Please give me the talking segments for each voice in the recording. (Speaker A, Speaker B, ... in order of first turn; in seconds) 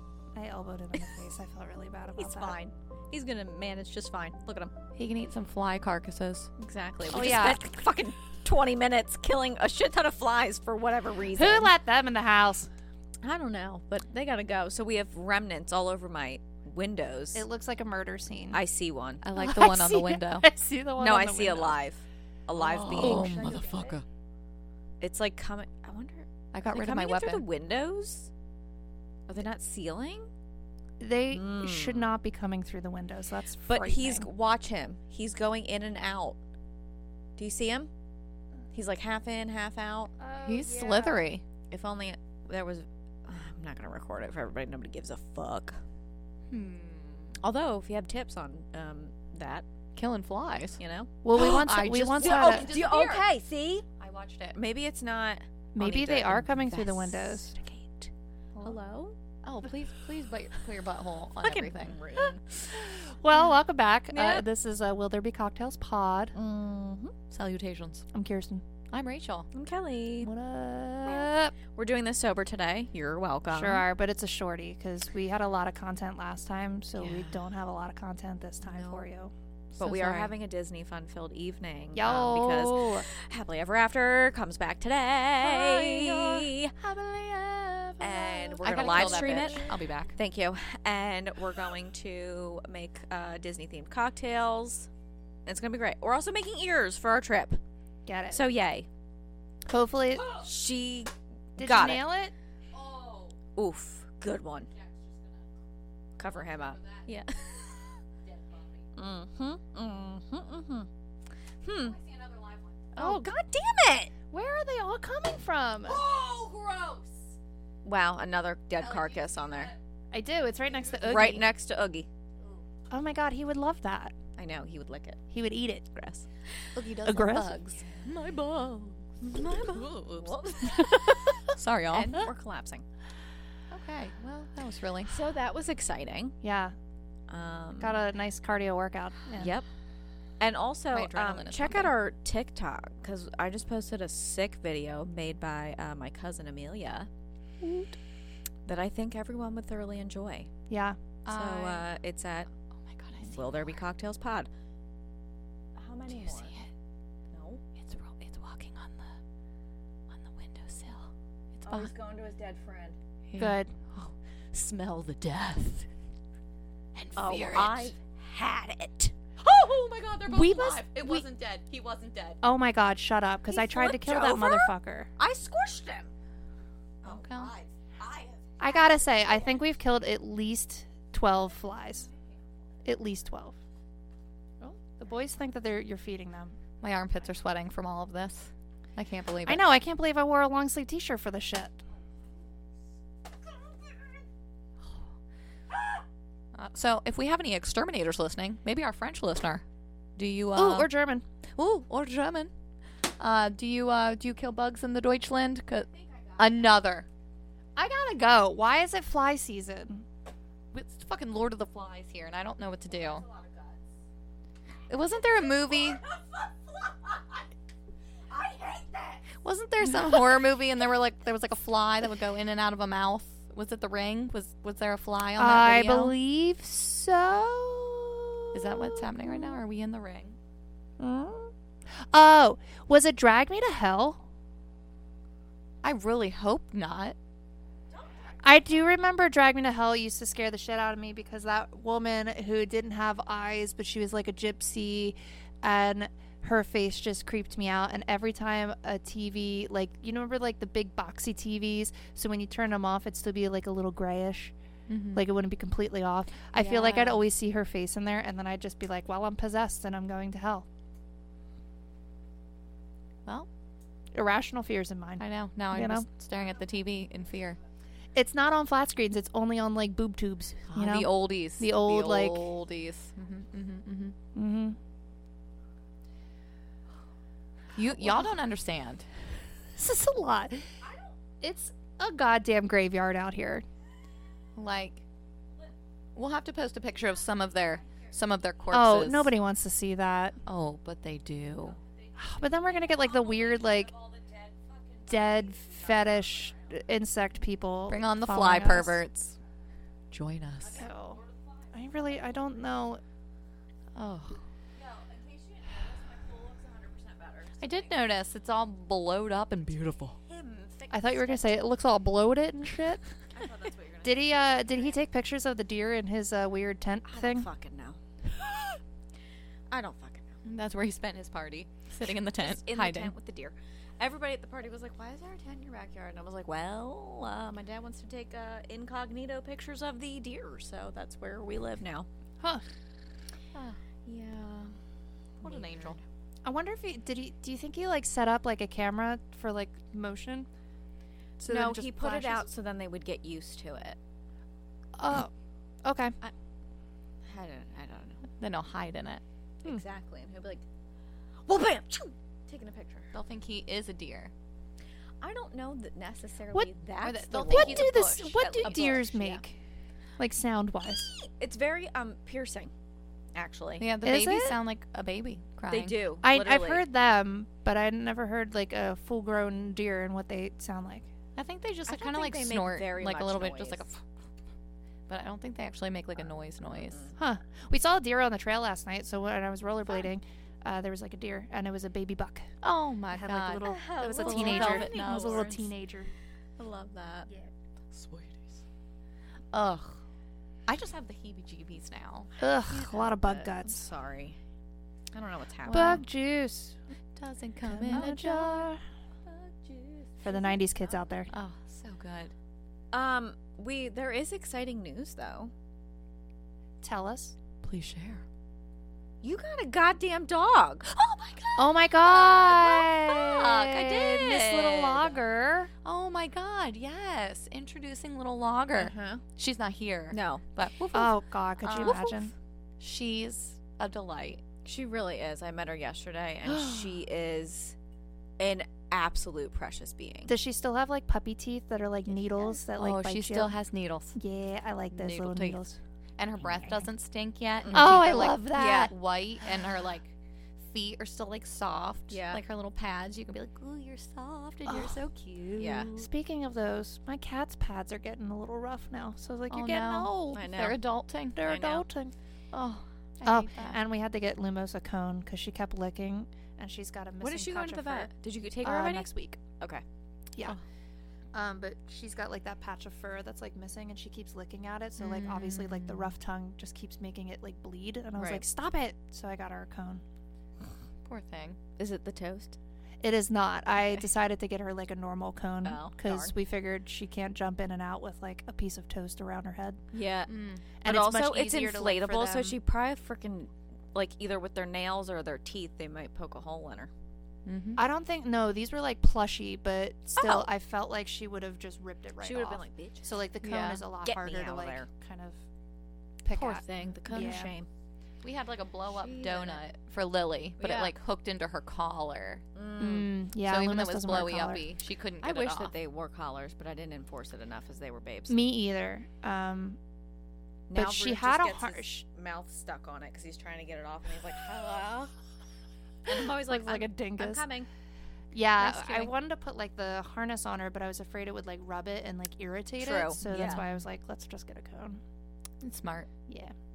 Speaker A: 0.3-2.6, 7.1-7.6, 11.3-12.7, 17.3-18.6, 19.4-21.8, 22.8-24.0, 31.0-34.3, 40.2-41.3, 51.2-52.7, 55.7-57.6, 62.2-66.3, 68.1-68.6, 70.2-71.5, 73.5-79.3, 81.9-83.1, 85.4-89.8, 98.1-98.4, 99.7-100.3, 101.6-102.3, 113.0-113.3, 114.3-116.0, 120.1-121.5, 122.9-124.2, 125.3-126.0, 127.0-127.6, 136.4-136.8, 137.8-139.5, 147.6-147.9, 150.7-151.0, 163.4-163.7, 170.3-171.3, 172.4-175.1, 178.6-182.1, 182.8-183.6, 185.0-186.6, 189.4-191.8, 200.6-201.2, 207.8-210.1, 225.4-229.6, 231.0-234.2, 238.4-254.6, 255.1-260.7, 264.1-266.1, 268.1-272.5, 274.4-274.8, 278.0-278.3, 279.8-280.7, 281.4-283.6, 288.7-290.4, 292.2-293.9, 295.1-299.0, 300.8-301.2, 301.7-303.0, 310.9-313.1, 314.0-317.5, 336.4-340.5, 341.4-342.5, 345.0-345.3, 345.8-346.2, 357.5-359.6, 360.2-361.1, 364.0-364.6, 366.2-371.1, 377.2-382.5, 383.1-386.1, 392.4-393.9, 395.7-396.8, 397.6-398.8, 400.2-401.3, 406.8-407.4, 411.6-415.7, 420.9-422.3, 430.3-433.6, 434.2-435.8, 437.7-438.9, 444.7-445.0, 445.9-450.2, 451.4-452.1, 453.2-458.1, 458.6-459.4, 461.3-470.0, 473.0-479.8, 480.8-482.6, 487.8-495.4, 496.2-497.5, 502.8-504.7, 508.3-509.8, 510.8-512.0, 516.1-517.5, 518.3-525.0, 526.3-526.5
Speaker B: 2.2-4.7, 6.6-11.7, 13.2-17.4, 18.5-19.2, 21.0-23.9, 25.0-28.3, 29.3-30.3, 31.3-32.1, 33.7-36.4, 37.4-37.9, 38.7-40.1, 41.7-45.8, 47.4-49.6, 50.8-51.7, 52.2-53.9, 54.5-58.0, 58.6-59.2, 61.4-62.4, 66.3-67.1, 69.5-70.3, 71.0-73.8, 77.0-77.3, 78.6-79.1, 79.8-86.8, 88.0-94.9, 95.5-97.6, 98.3-98.9, 100.4-102.0, 103.6-104.7, 106.2-107.5, 109.0-110.9, 111.6-112.0, 113.0-114.1, 117.8-119.7, 121.0-122.1, 124.4-125.2, 129.2-131.4, 131.9-132.8, 135.1-136.4, 137.3-138.0, 139.4-139.7, 140.4-147.1, 148.7-150.5, 151.3-152.5, 153.2-154.5, 155.8-156.5, 157.3-157.6, 161.7-163.0, 167.2-169.1, 173.5-176.1, 177.0-179.6, 205.9-206.7, 212.9-213.9, 215.7-217.2, 218.3-219.3, 237.9-238.9, 280.8-281.1, 293.1-295.1, 300.7-301.7, 304.8-307.9, 310.2-311.6, 313.3-315.0, 317.1-318.0, 319.7-320.4, 322.4-332.1, 334.1-334.8, 335.4-336.0, 341.5-344.0, 347.2-348.2, 349.6-350.7, 351.5-353.1, 355.2-359.4, 361.1-362.7, 363.4-363.9, 365.7-366.9, 371.9-373.9, 376.8-377.1, 383.6-385.6, 386.6-387.4, 392.5-394.4, 395.1-396.0, 397.9-398.4, 399.3-401.0, 402.9-405.5, 409.2-411.6, 418.8-419.2, 420.1-420.4, 424.6-427.8, 428.4-430.3, 432.1-432.5, 437.6-438.9, 442.1-442.4, 445.6-445.9, 450.3-450.8, 451.4-451.9, 457.2-459.8, 468.2-468.4, 471.8-472.6, 475.6-476.3, 479.9-486.9, 490.2-490.5, 492.2-493.1, 494.0-494.9, 496.3-497.7, 498.9-499.6, 500.6-500.9, 502.6-503.1, 505.2-508.4, 510.7-515.1, 516.1-517.7, 518.6-519.1, 522.8-523.6
Speaker C: 5.0-6.5, 19.2-20.5, 22.6-24.1, 26.5-27.4, 40.5-41.4, 46.5-47.4, 50.0-50.8, 51.4-53.3, 54.0-54.6, 59.4-62.0, 64.1-64.5, 67.3-68.1, 68.9-69.5, 79.7-80.3, 88.6-90.2, 102.7-103.4, 104.7-105.5, 106.2-108.9, 111.8-112.9, 115.8-117.4, 118.8-119.8, 126.7-132.3, 133.7-135.2, 140.9-141.9, 151.2-151.9, 152.9-153.8, 156.1-156.7, 157.8-159.1, 160.1-161.9, 163.3-165.9, 166.9-167.9, 169.4-172.4, 177.0-177.5, 186.8-189.6, 196.5-199.6, 200.2-200.9, 201.6-202.5, 203.2-207.1, 210.7-213.2, 214.9-216.0, 219.4-226.2, 228.5-230.4, 235.8-237.2, 254.9-255.2, 256.5-257.2, 265.2-267.6, 270.7-274.2, 277.8-279.2, 284.6-285.0, 286.2-289.3, 290.5-291.8, 297.9-299.4, 300.1-300.9, 303.9-304.4, 307.6-310.2, 320.4-323.1, 333.5-333.8, 335.4-336.0, 348.4-349.2, 353.1-354.3, 357.0-358.9, 363.8-366.0, 371.4-374.0, 375.1-377.1, 382.6-385.7, 387.9-388.6, 389.5-390.0, 390.7-392.3, 395.7-396.0, 397.2-398.6, 401.3-402.3, 407.6-408.2, 412.0-415.1, 415.8-424.4, 432.8-434.2, 434.9-435.6, 436.2-446.1, 449.5-451.4, 452.5-453.8, 465.0-466.1, 471.1-471.6, 480.3-480.7, 487.5-487.8, 493.4-493.8, 498.2-502.4, 503.4-505.7, 525.6-526.1